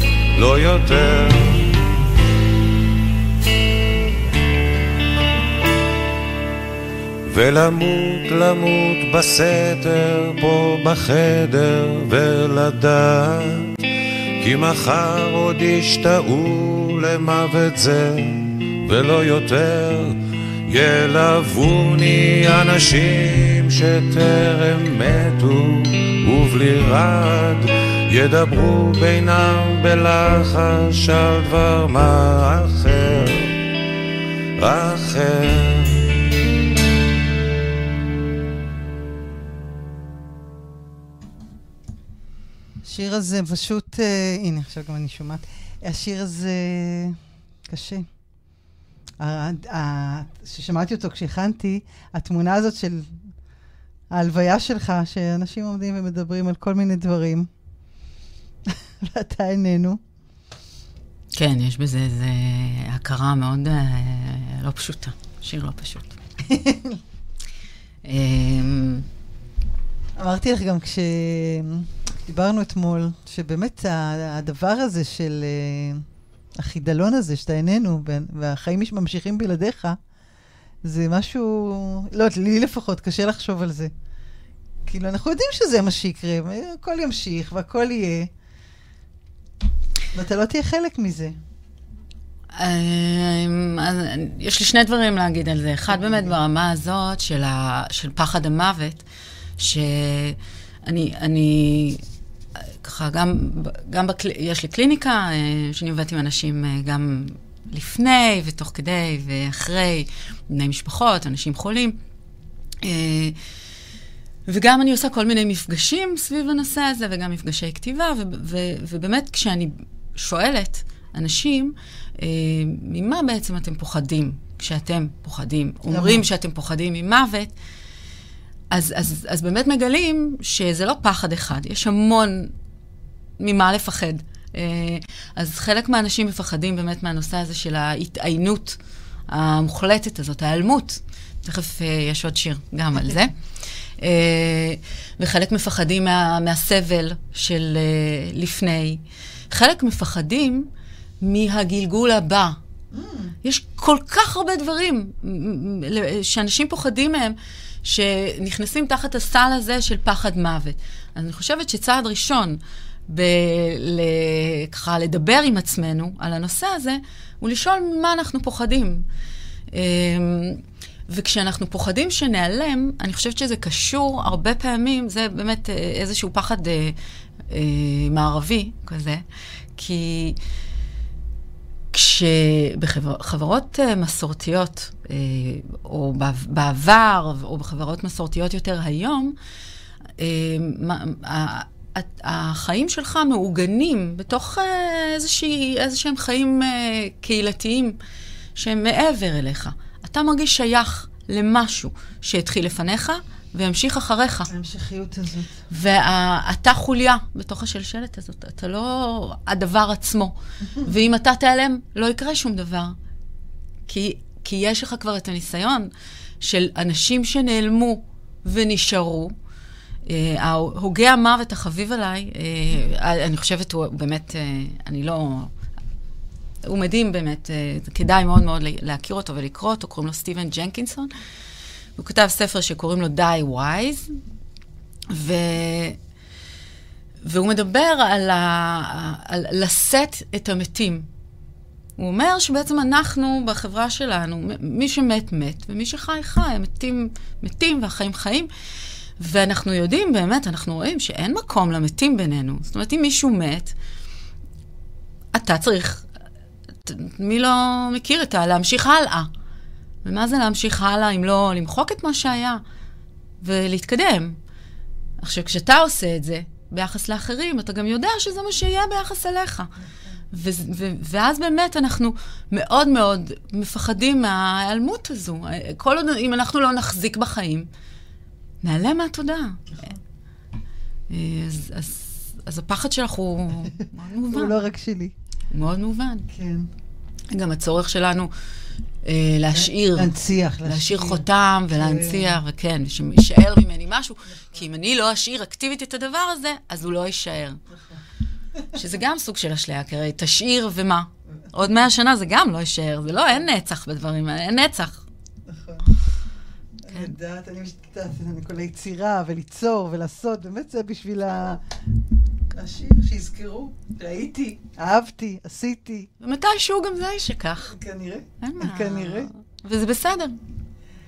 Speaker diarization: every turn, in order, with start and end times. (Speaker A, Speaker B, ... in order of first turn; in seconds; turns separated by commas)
Speaker A: 0.3-1.8, Speaker A: 7.2-13.7, Speaker A: 14.4-33.5, Speaker A: 34.6-36.1, Speaker B: 42.8-48.1, Speaker B: 49.2-53.2, Speaker B: 54.1-57.5, Speaker B: 58.7-60.0, Speaker C: 61.3-66.2, Speaker B: 66.4-67.0, Speaker C: 68.0-69.0, Speaker B: 70.2-80.0, Speaker B: 80.8-83.9, Speaker B: 84.8-88.3, Speaker B: 90.1-91.3, Speaker C: 92.5-99.0, Speaker B: 95.9-96.3, Speaker C: 99.6-102.0, Speaker C: 102.8-112.0, Speaker C: 112.8-113.3, Speaker C: 114.5-127.5, Speaker B: 125.9-126.2, Speaker C: 128.7-132.5, Speaker C: 133.4-138.8, Speaker C: 139.3-143.3, Speaker C: 144.0-150.7, Speaker C: 151.2-152.6, Speaker B: 152.9-153.3, Speaker C: 153.4-169.0, Speaker C: 169.7-176.9, Speaker C: 177.5-179.2, Speaker C: 179.8-180.4, Speaker C: 181.9-189.3, Speaker C: 190.2-198.0, Speaker C: 198.6-204.5, Speaker B: 204.5-205.6, Speaker C: 205.7-212.9, Speaker C: 213.9-215.9, Speaker C: 216.4-219.3, Speaker C: 220.1-225.5, Speaker C: 226.6-231.1, Speaker C: 231.9-234.1, Speaker C: 235.1-236.0, Speaker C: 237.2-241.1, Speaker C: 242.0-248.5, Speaker C: 249.2-253.7, Speaker C: 255.3-256.1, Speaker C: 256.8-259.3, Speaker C: 260.0-262.6, Speaker C: 263.4-264.4, Speaker C: 265.2-269.7, Speaker C: 270.3-277.7, Speaker C: 278.6-279.6, Speaker C: 281.1-284.6, Speaker B: 284.3-285.1, Speaker C: 285.5-286.2, Speaker B: 286.3-286.7, Speaker C: 287.3-288.3, Speaker C: 289.0-290.1, Speaker B: 289.5-292.4, Speaker C: 290.6-297.6, Speaker B: 294.3-294.6, Speaker B: 297.7-298.0, Speaker C: 298.7-305.0, Speaker B: 305.4-305.8, Speaker B: 306.8-311.6, Speaker B: 312.5-316.1, Speaker C: 316.2-317.8, Speaker B: 317.7-319.3, Speaker C: 318.4-320.4